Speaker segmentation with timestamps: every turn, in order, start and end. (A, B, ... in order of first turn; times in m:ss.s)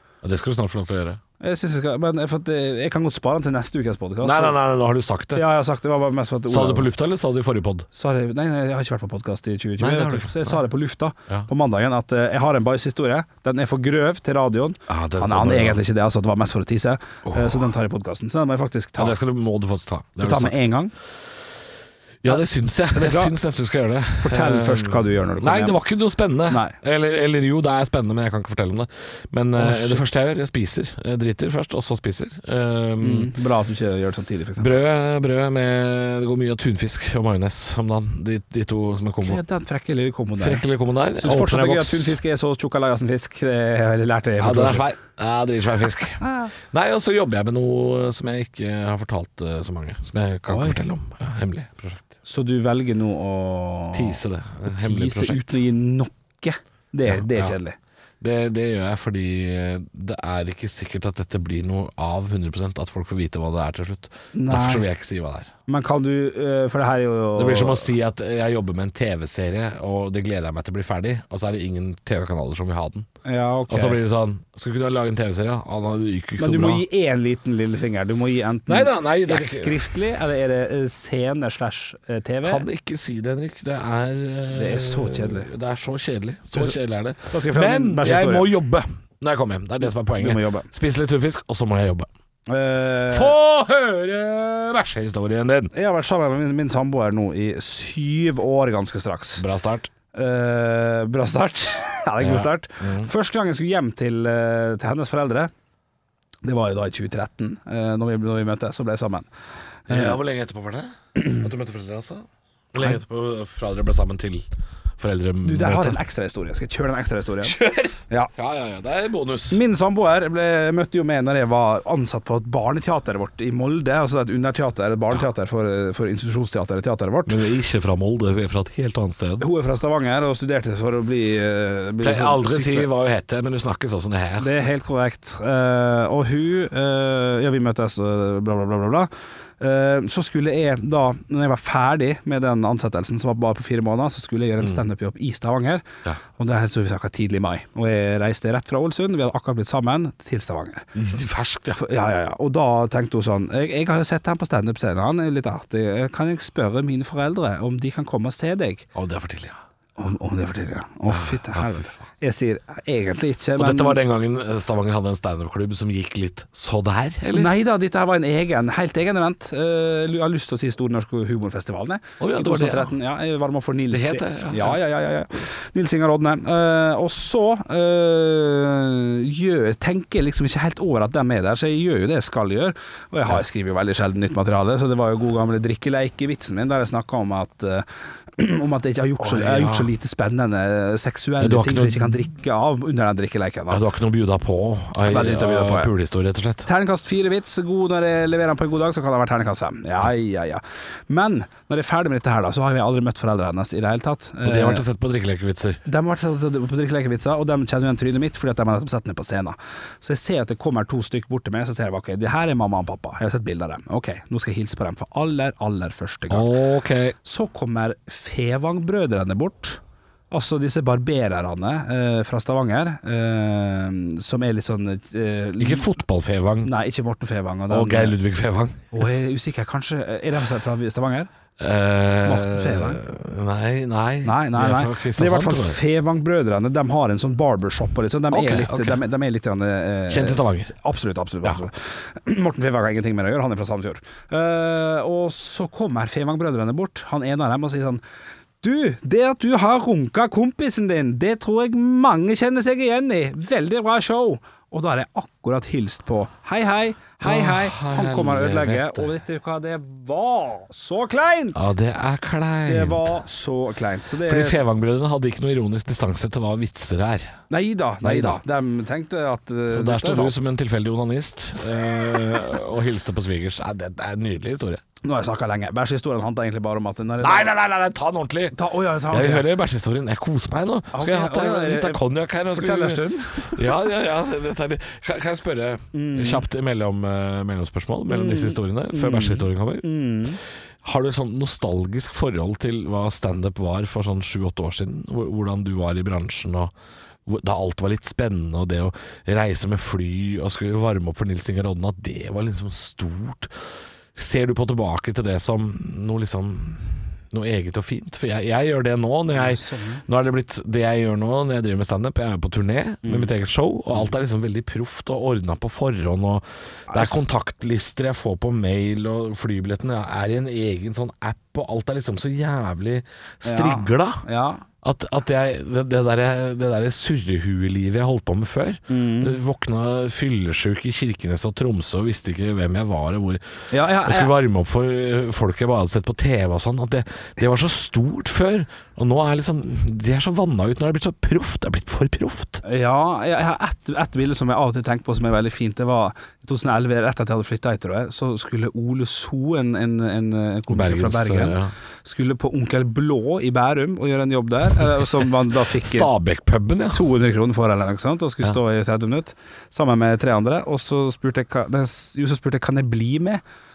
0:00.2-0:01.2 A
0:01.4-0:04.6 B
0:04.2-0:05.4 A
0:05.3-0:06.9 B
0:06.5-0:07.9 A
0:07.9-0:19.2 B
0:09.8-0:10.6 A
0:14.9-0:15.8 A
0:17.2-0:17.6 A
0:19.0-0:20.7 A
0:20.2-0:20.9 B
0:22.2-0:33.3 A
0:22.9-0:23.3 B
0:24.2-0:25.8 B
0:26.5-0:26.8 B
0:29.6-0:30.0 B
0:33.0-0:34.7 B
0:34.6-0:39.4 A
0:39.2-0:40.6 B
0:40.4-0:42.2 A
0:41.2-0:44.9 B
0:44.4-0:52.0 A
0:46.2-0:46.5 B
0:50.5-0:50.8 B
0:52.2-0:57.8 B
0:53.9-0:55.6 A
0:57.1-0:57.6 A
0:58.2-1:05.5 A
1:04.3-1:04.9 B
1:05.7-1:07.9 B
1:07.4-1:13.1 A
1:13.2-1:14.0 B
1:13.7-1:16.8 A
1:16.4-1:22.6 B
1:18.7-1:19.8 A
1:22.4-1:32.1 A
1:24.5-1:25.5 B
1:27.3-1:28.5 B
1:30.1-1:30.7 B
1:32.5-1:33.3 B
1:33.1-1:35.7 A
1:35.7-1:39.4 B
1:39.4-1:39.9 A
1:40.1-1:45.5 B
1:42.2-1:43.1 A
1:46.4-1:49.3 B
1:49.9-1:50.2 B
1:49.9-1:54.4 A
1:55.0-1:56.0 A
1:55.4-1:57.6 B
1:57.4-1:59.6 A
1:59.5-2:07.4 B
2:07.3-2:09.4 A
2:09.4-2:12.9 B
2:12.0-2:14.5 A
2:14.4-2:25.8 B
2:26.4-2:30.9 B
2:30.9-2:31.8 A
2:31.7-2:38.8 B
2:38.9-2:39.6 A
2:40.0-2:44.0 B
2:41.1-2:42.0 A
2:43.6-2:47.5 A
2:47.3-3:13.8 B
2:52.2-2:52.9 A
2:53.9-2:54.8 A
3:09.2-3:09.9 A
3:11.4-3:12.3 A
3:13.7-3:16.7 A
3:15.0-3:15.9 B
3:16.6-3:24.8 B
3:24.4-3:25.8 A
3:25.8-3:36.5 B
3:36.3-3:37.2 A
3:37.2-3:39.8 B
3:40.3-3:45.9 B
3:45.6-3:46.7 A
3:46.6-3:48.2 B
3:47.7-3:48.9 A
3:48.9-3:51.3 B
3:51.6-3:55.8 A
3:52.2-3:53.0 B
3:54.2-4:08.0 B
3:58.3-3:59.0 A
4:00.1-4:00.7 A
4:08.6-4:21.6 B
4:17.2-4:19.1 A
4:21.5-4:23.1 A
4:22.6-4:24.6 B
4:24.2-4:27.4 A
4:27.5-4:30.5 B
4:28.0-4:28.4 A
4:29.7-4:34.8 A
4:35.0-4:37.5 B
4:37.2-4:38.6 A
4:38.5-4:39.5 B
4:39.1-4:49.9 A
4:40.9-4:43.7 B
4:45.9-4:46.4 B
4:48.1-4:50.4 B
4:50.8-4:56.7 A
4:57.2-5:24.2 A
5:09.3-5:10.0 B
5:13.0-5:13.3 B
5:16.9-5:17.2 B
5:23.4-5:24.6 B
5:24.8-5:33.4 A
5:28.9-5:29.4 B
5:33.7-5:34.3 B
5:34.0-5:42.6 A
5:42.6-5:56.1 B
5:50.7-5:51.7 A
5:55.5-5:57.1 A
5:56.9-6:03.4 B